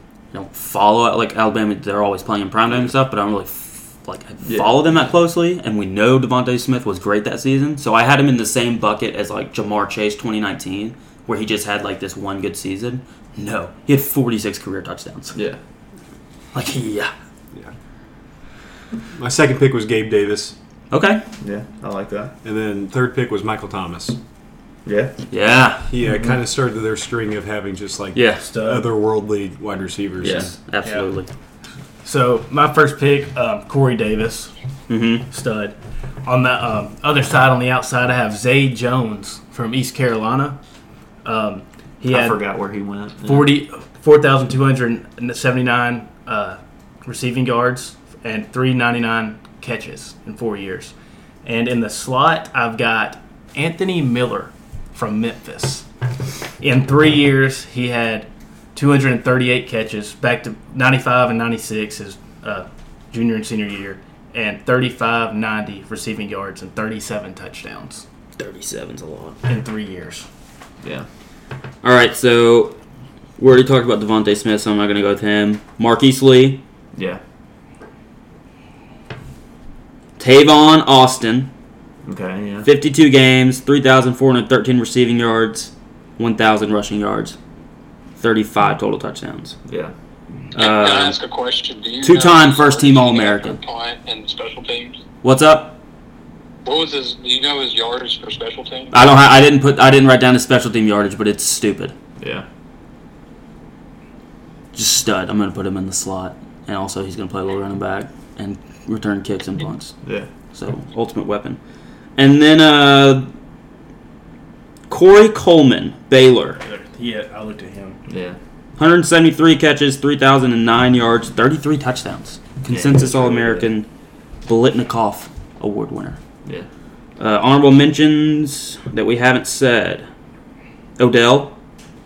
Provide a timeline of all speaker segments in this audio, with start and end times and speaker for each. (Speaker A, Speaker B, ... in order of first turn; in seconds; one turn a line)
Speaker A: 0.3-15.4
Speaker B: 4.4-5.0
Speaker B: 15.3-15.6
Speaker A: 16.5-17.1
Speaker C: 19.1-20.5
Speaker A: 20.9-21.2
Speaker B: 21.4-22.3
Speaker C: 22.4-24.2
Speaker B: 24.9-25.1
Speaker A: 25.3-25.9
Speaker C: 25.9-30.5
Speaker A: 28.1-28.4
Speaker D: 28.4-28.9
Speaker B: 30.2-30.5
Speaker A: 30.2-31.3
Speaker D: 30.8-31.1
Speaker D: 32.0-34.5
Speaker A: 34.9-35.3
Speaker D: 35.3-40.6
Speaker D: 41.2-42.4
Speaker B: 42.1-43.6
Speaker D: 43.2-50.9
Speaker D: 51.4-55.9
Speaker D: 56.6-68.0
Speaker A: 68.4-69.4
Speaker D: 69.5-70.2
Speaker A: 71.8-72.8
Speaker A: 73.4-76.6
Speaker A: 80.2-81.5
Speaker B: 82.0-82.7
Speaker A: 82.6-87.4
Speaker A: 88.2-89.6
Speaker B: 89.7-89.9
Speaker A: 90.5-91.2
Speaker E: 90.5-95.0
Speaker A: 92.0-93.6
Speaker A: 95.2-95.8
Speaker E: 96.6-98.9
Speaker A: 98.9-101.9
Speaker B: 102.2-102.5
Speaker A: 104.7-110.0
Speaker A: 110.5-111.6
Speaker A: 112.2-113.3
Speaker A: 114.9-116.6
Speaker D: 116.6-118.0
Speaker B: 118.1-118.4
Speaker A: 118.8-123.9
Speaker B: 122.7-123.7
Speaker A: 124.5-126.2
Speaker A: 127.2-130.1
Speaker A: 131.0-131.5